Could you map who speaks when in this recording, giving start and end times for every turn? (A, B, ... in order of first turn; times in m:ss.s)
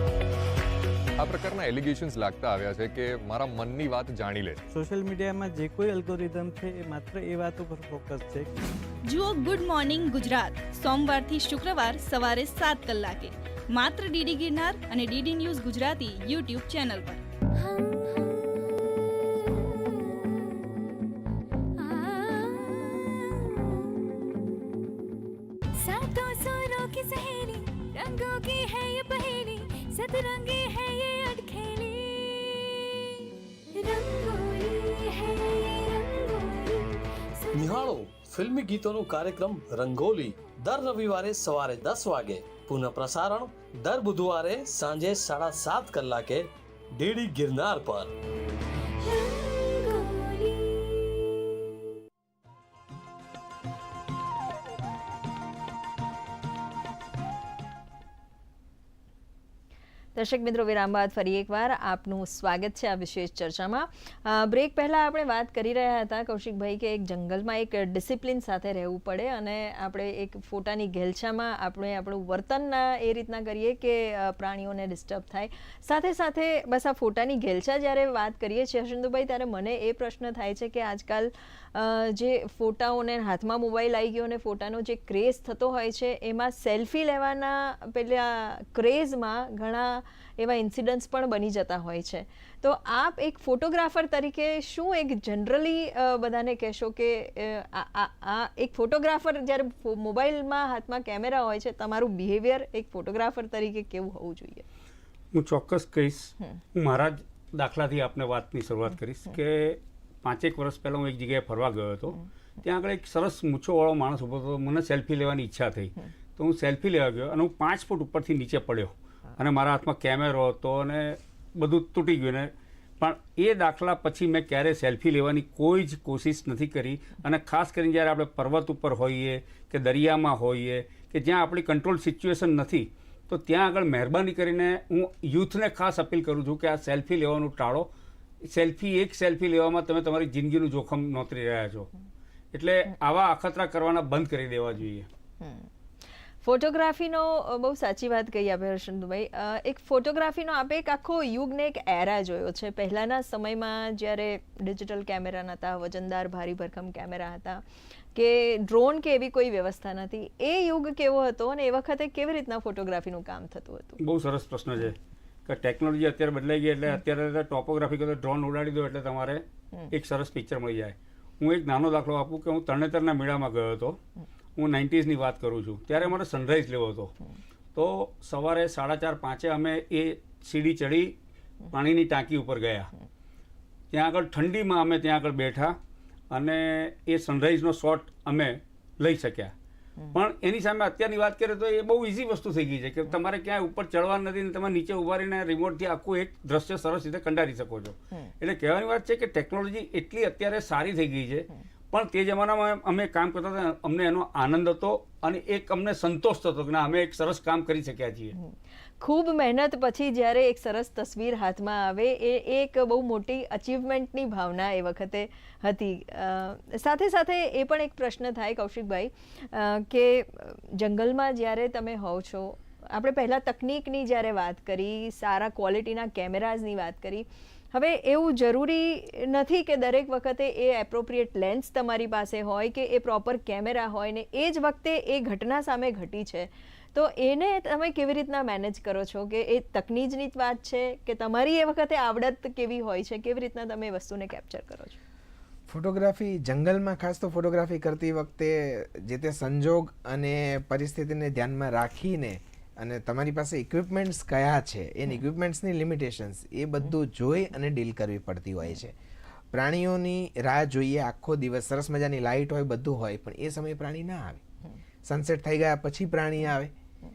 0:01.2-0:04.6 A
0:04.7-0:08.6 B
0:09.1-0:17.2 C
0:17.6-0:20.8 D
0:21.8-0:24.0 D
0:25.8-0:33.1 D
0:33.8-0:37.9 D
0:37.5-0:48.1 E
0:49.0-0:51.2 D
1:00.2-1:44.7 F
1:45.3-2:17.9 G
2:18.4-2:21.9 G
2:22.5-2:25.1 G
2:25.4-2:25.7 F
2:26.4-2:44.0 F
2:44.0-2:54.0 G
2:54.6-2:57.1 G
2:57.8-3:01.1 G
3:01.7-3:02.9 G
3:03.9-3:05.8 G
3:06.3-3:09.5 G
3:10.1-3:28.4 G
3:28.4-4:05.0 F
4:05.7-4:19.0 H
4:19.5-4:24.4 H
4:25.0-4:26.7 H